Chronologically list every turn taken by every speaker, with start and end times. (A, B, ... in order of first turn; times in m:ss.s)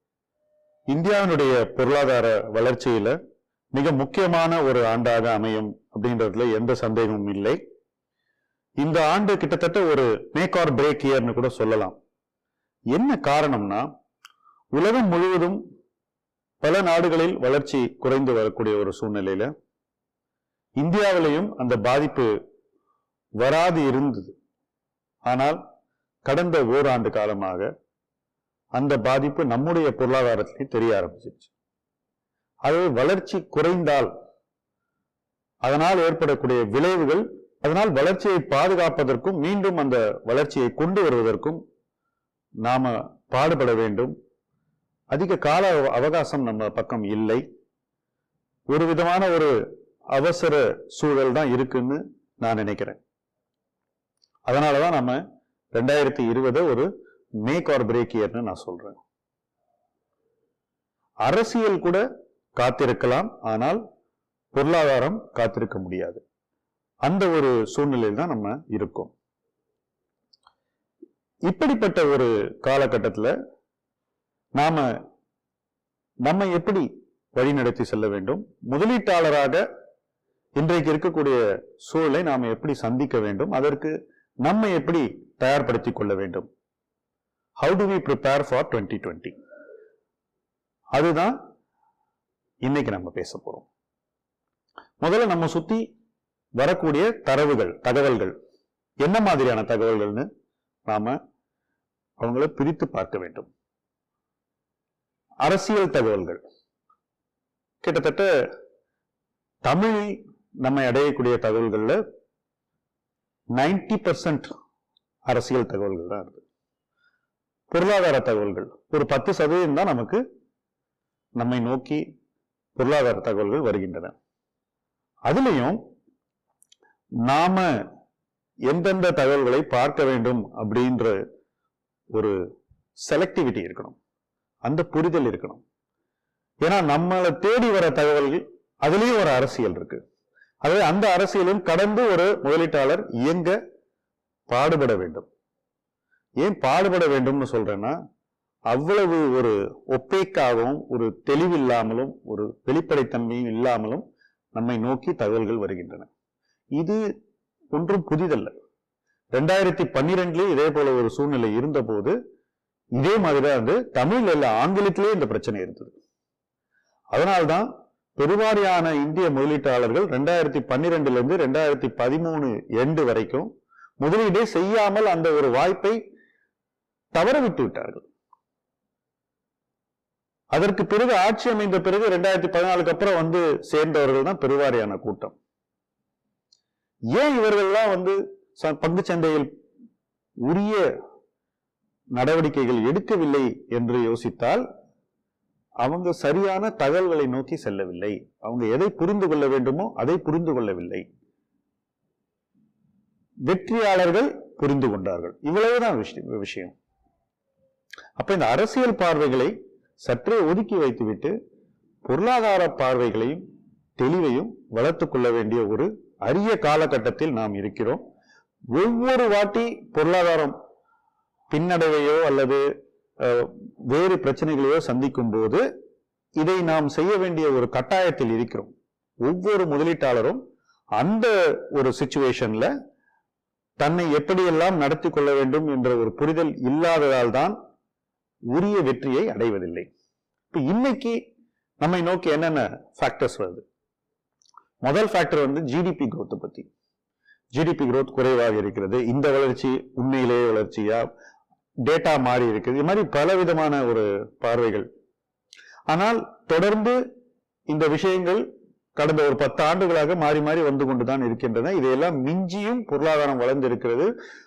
0:00.9-0:03.2 A
0:03.7-0:07.6 A
0:08.8-0:11.9 A
0:12.9-0:13.8 A
0:14.7-0:15.6 A
0:16.6-0:19.5 A
0:20.8-0:22.3 A
0:23.4-0:24.3 A
0:25.2-0:25.6 A
0:26.2-0:27.7 A
0:28.8-0:31.5 A
0:32.6-0:34.1 A
0:35.6-0:41.6 A
0:42.6-0:44.1 A
0:45.1-0:47.4 A
0:48.7-0:49.5 A
0:50.1-0:53.0 A
0:54.5-0:55.2 A
0:55.7-0:56.9 A
0:57.4-0:59.0 A
1:01.2-1:02.0 A
1:02.6-1:03.8 A
1:04.5-1:06.2 A
1:07.0-1:09.1 A
1:11.5-1:13.3 A
1:14.6-1:14.9 A
1:16.2-1:19.6 A
1:20.6-1:23.9 A
1:24.4-1:26.5 A
1:27.6-1:29.3 A
1:30.9-1:31.4 A
1:32.6-1:33.7 A
1:35.0-1:35.8 A
1:36.6-1:38.3 A
1:39.0-1:40.3 A
1:40.9-1:41.2 A
1:42.2-1:43.5 A
1:45.4-1:46.4 A
1:47.8-1:48.3 A
1:49.6-1:52.0 A
1:53.6-1:54.5 A
1:55.3-1:56.4 A
1:57.7-2:00.2 A
2:01.4-2:02.0 A
2:02.8-2:04.1 A
2:05.3-2:05.8 A
2:07.2-2:07.7 A
2:08.7-2:11.2 A
2:13.0-2:14.0 A
2:14.6-2:15.6 A
2:16.6-2:20.0 A
2:20.6-2:23.6 A
2:24.5-2:25.3 A
2:26.4-2:27.9 A
2:28.7-2:36.1 A
2:37.7-2:38.5 A
2:39.3-2:42.1 A
2:43.0-2:45.9 A
2:47.1-2:53.5 A
2:54.0-2:56.0 A
2:57.1-2:58.0 A
3:00.5-3:05.4 A
3:07.1-3:09.5 A
3:10.5-3:10.8 A
3:12.2-3:14.6 A
3:15.8-3:21.0 A
3:23.5-3:26.7 A
3:28.2-3:31.3 A
3:32.0-3:33.4 A
3:34.0-3:38.0 A
3:38.7-3:40.6 A
3:41.5-3:42.6 A
3:43.2-3:45.6 A
3:46.4-3:48.7 A
3:49.2-3:50.4 A
3:51.0-3:52.7 A
3:53.8-3:57.6 A
3:58.5-3:59.9 A
4:00.5-4:01.2 A
4:01.8-4:03.6 A
4:04.8-4:06.7 A
4:07.5-4:11.0 A
4:11.8-4:14.8 A
4:15.9-4:17.0 A
4:17.7-4:18.4 A
4:19.0-4:24.1 A